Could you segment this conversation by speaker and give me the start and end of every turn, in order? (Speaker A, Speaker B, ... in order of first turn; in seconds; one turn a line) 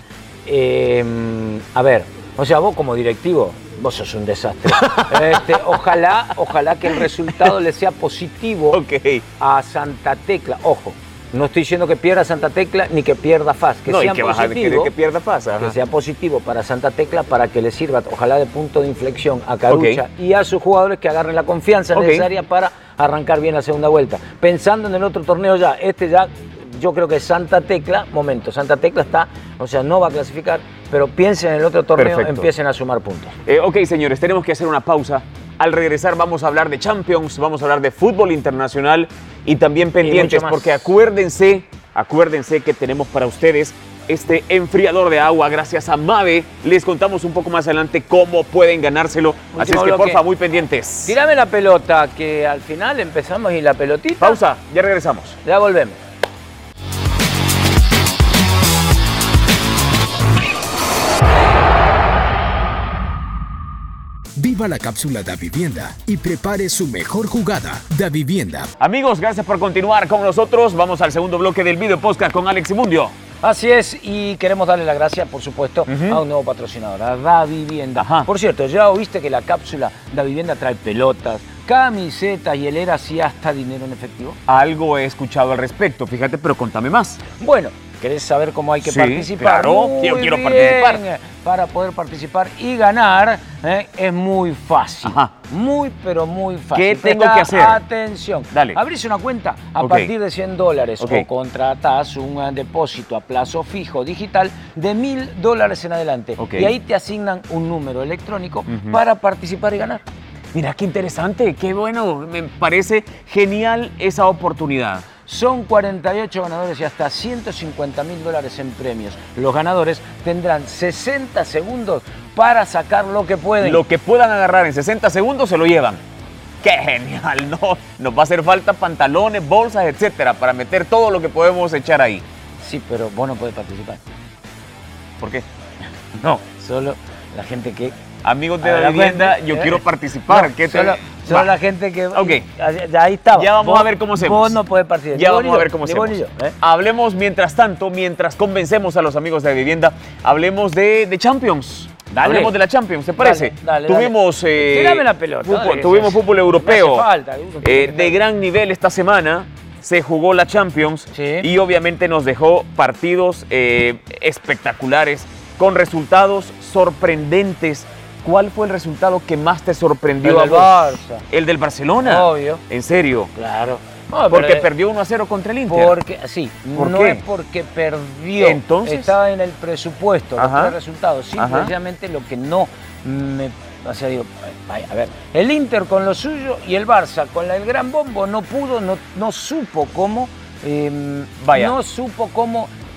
Speaker A: 0.5-8.8
Speaker B: 4.8-5.6
Speaker B: 8.7-9.2
Speaker A: 9.4-14.9
Speaker B: 13.9-15.8
Speaker A: 15.6-33.3
Speaker B: 19.7-20.0
Speaker B: 21.9-22.2
Speaker B: 32.0-32.5
Speaker B: 33.5-51.1
Speaker A: 40.0-40.9
Speaker A: 49.5-50.2
Speaker A: 51.1-54.4
Speaker B: 54.2-55.4
Speaker A: 55.4-56.0
Speaker C: 64.4-68.7
Speaker B: 68.8-73.1
Speaker A: 73.4-84.4
Speaker B: 75.9-76.2
Speaker B: 78.0-78.3
Speaker B: 84.5-87.2
Speaker A: 87.4-110.0
Speaker B: 88.8-91.0
Speaker B: 95.0-95.3
Speaker B: 96.7-97.8
Speaker B: 98.5-98.8
Speaker B: 99.8-100.1
Speaker B: 101.0-101.3
Speaker B: 106.4-106.7
Speaker B: 108.7-109.0
Speaker B: 110.5-115.1
Speaker A: 115.2-123.8
Speaker B: 123.6-126.0
Speaker B: 126.6-132.2
Speaker A: 132.6-134.0
Speaker B: 135.2-135.5
Speaker A: 136.1-138.0
Speaker B: 138.2-141.5
Speaker A: 138.6-146.6
Speaker B: 142.1-142.4
Speaker B: 143.3-144.6
Speaker B: 145.1-157.1
Speaker A: 152.1-152.5
Speaker A: 153.2-158.2
Speaker B: 157.6-173.3
Speaker A: 161.1-161.5
Speaker A: 170.2-171.2
Speaker A: 172.0-172.6
Speaker A: 173.3-174.7
Speaker B: 174.3-176.0
Speaker A: 175.7-192.7
Speaker B: 176.8-177.2
Speaker B: 178.4-179.2
Speaker B: 180.4-180.8
Speaker B: 181.4-181.7
Speaker B: 191.4-191.8